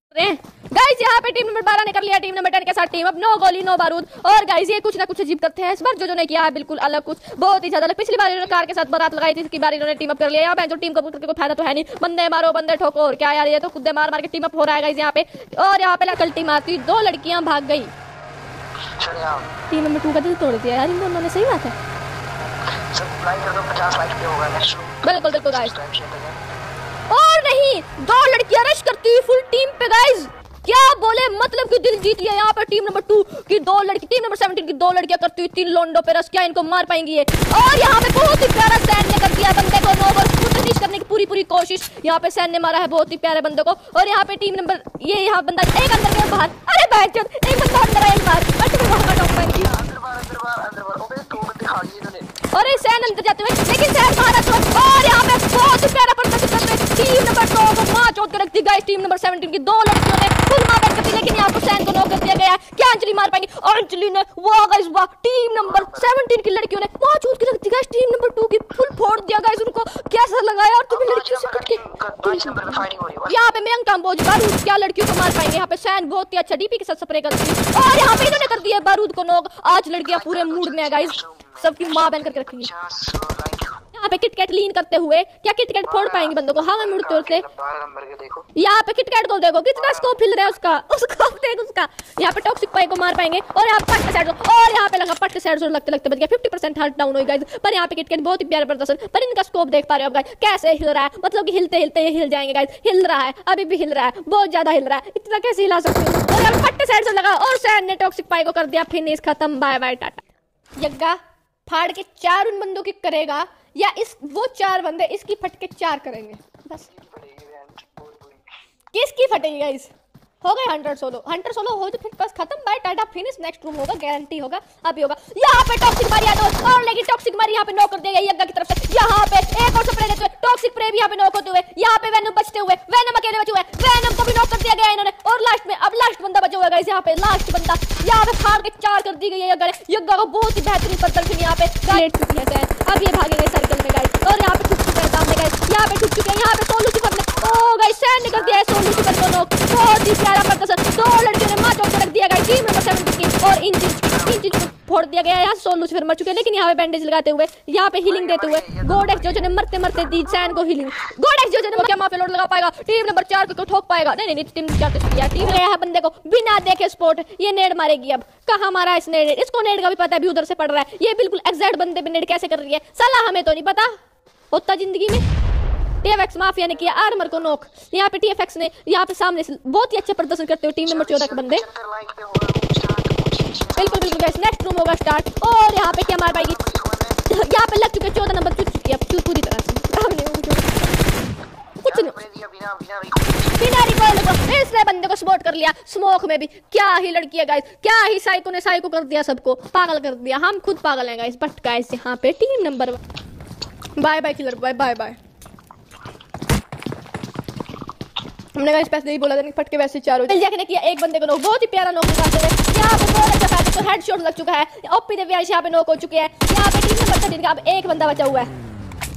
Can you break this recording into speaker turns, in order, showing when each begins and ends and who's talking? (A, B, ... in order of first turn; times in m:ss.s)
0:00.1-0:17.9 A
0:18.9-0:19.5 B
0:19.7-0:21.7 A
0:22.7-0:26.4 B
0:25.0-0:25.7 A
0:27.1-0:49.7 A
0:49.5-0:52.4 B
0:52.5-1:22.7 A
1:05.6-1:06.1 B
1:10.9-1:13.4 B
1:18.0-1:18.4 B
1:20.0-1:23.8 B
1:23.9-1:27.4 A
1:25.8-1:28.5 B
1:28.5-1:50.2 A
1:29.8-1:30.2 B
1:50.8-1:56.8 A
1:56.8-1:58.5 B
1:58.9-2:53.9 A
2:27.1-2:29.2 B
2:34.0-2:34.5 B
2:38.0-2:39.5 B
2:54.5-2:55.2 A
2:56.0-3:01.6 A
2:56.9-2:57.3 B
3:00.8-3:04.4 B
3:03.8-3:06.6 A
3:05.6-3:07.2 B
3:07.3-3:10.8 A
3:11.8-3:12.2 A
3:11.8-3:13.8 B
3:13.6-3:23.0 A
3:24.0-3:25.2 A
3:28.5-3:38.5 A